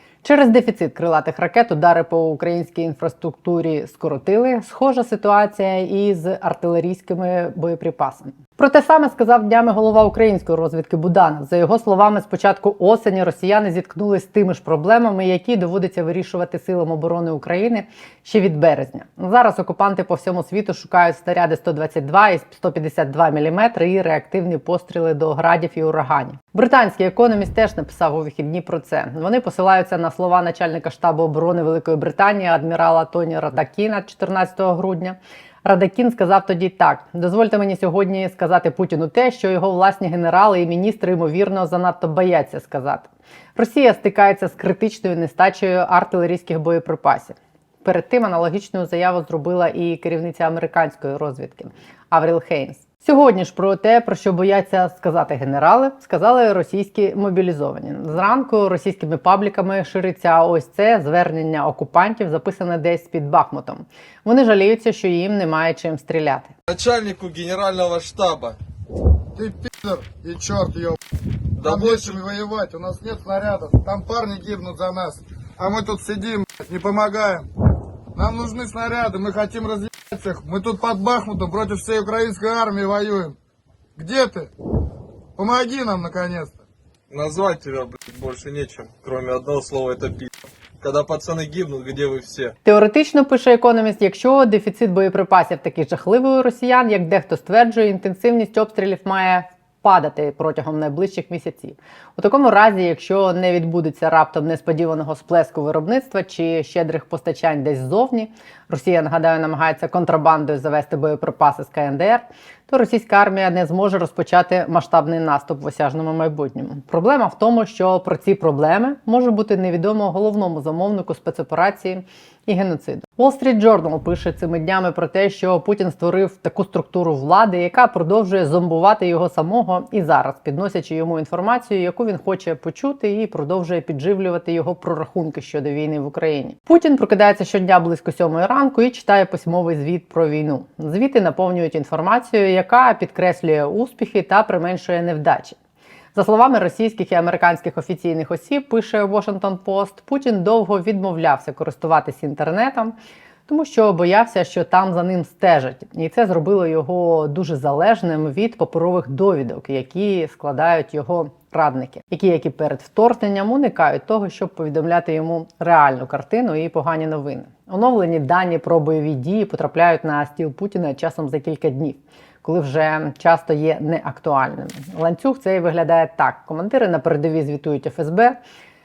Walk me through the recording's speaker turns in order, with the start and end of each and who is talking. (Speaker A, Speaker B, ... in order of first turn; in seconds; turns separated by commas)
Speaker A: 0.2-66.5, Speaker B: 66.7-68.6, Speaker C: 69.3-71.0, Speaker B: 71.6-72.2, Speaker C: 71.7-77.5, Speaker C: 78.2-83.4, Speaker C: 84.0-84.5, Speaker C: 85.4-86.6, Speaker B: 87.1-92.5, Speaker A: 92.6-145.6, Speaker A: 146.1-152.9, Speaker A: 153.5-178.4